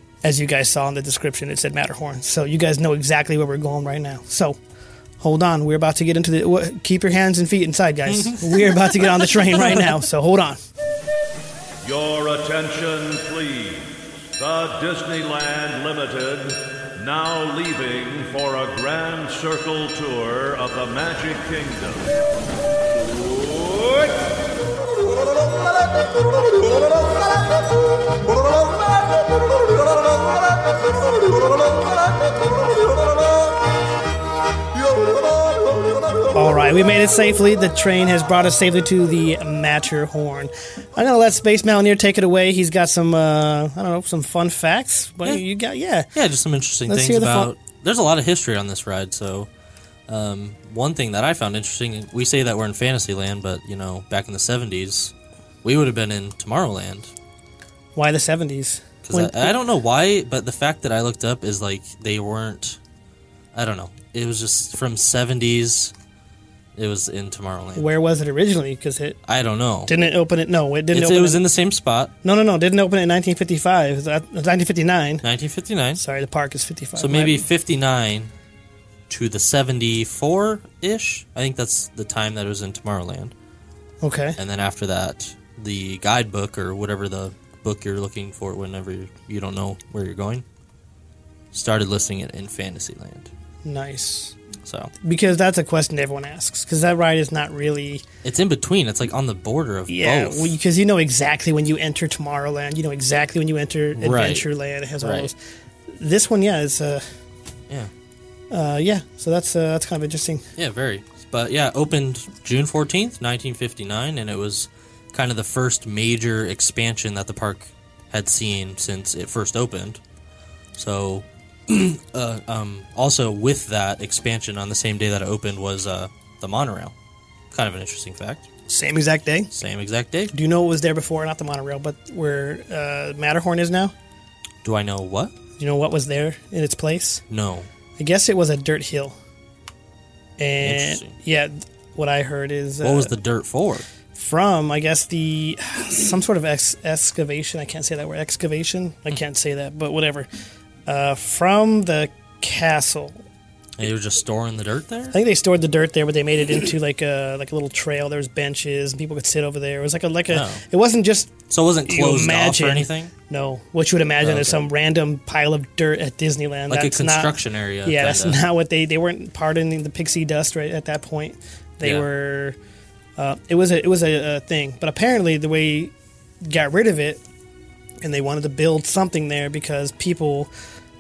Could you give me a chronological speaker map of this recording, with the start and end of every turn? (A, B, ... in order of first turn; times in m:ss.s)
0:00.2-0:04.6 A
0:05.2-0:10.6 A
0:08.1-0:10.0 B
0:11.8-0:22.1 C
0:23.2-0:24.3 C
0:36.3-0:46.1 A
0:46.1-0:49.5 B
0:46.9-0:47.5 A
0:50.1-0:57.1 B
0:57.9-0:59.6 A
0:59.0-1:02.8 B
1:03.5-1:05.9 B
1:06.8-1:07.9 B
1:07.8-1:09.2 A
1:09.2-1:09.9 B
1:09.8-1:11.4 A
1:10.9-1:12.1 B
1:12.2-1:15.2 A
1:15.2-1:16.0 B
1:16.0-1:17.4 A
1:17.0-1:18.3 B
1:19.1-1:23.3 B
1:24.0-1:24.4 A
1:24.4-1:30.4 B
1:31.5-1:33.3 B
1:33.6-1:34.4 A
1:34.6-1:34.9 B
1:35.0-1:38.0 A
1:38.2-1:40.6 B
1:39.9-1:45.4 A
1:44.0-1:44.5 B
1:45.0-1:45.3 B
1:45.9-1:47.0 A
1:48.5-1:50.5 A
1:50.6-2:00.0 B
2:00.8-2:06.9 B
2:07.5-2:08.5 B
2:08.7-2:09.5 A
2:09.5-2:10.3 B
2:10.3-2:13.9 A
2:14.6-2:15.3 B
2:15.6-2:17.2 A
2:17.3-2:17.7 B
2:18.0-2:19.2 A
2:20.4-2:23.1 A
2:20.6-2:21.1 B
2:22.8-2:23.9 B
2:24.1-2:30.3 A
2:30.8-2:33.2 A
2:33.8-2:35.2 B
2:35.1-2:52.6 A
2:40.3-2:40.6 B
2:41.5-2:43.1 B
2:44.2-2:44.6 B
2:46.7-2:48.4 B
2:51.8-2:52.1 B
2:53.2-2:55.9 A
2:56.4-2:57.2 A
2:58.0-3:00.5 A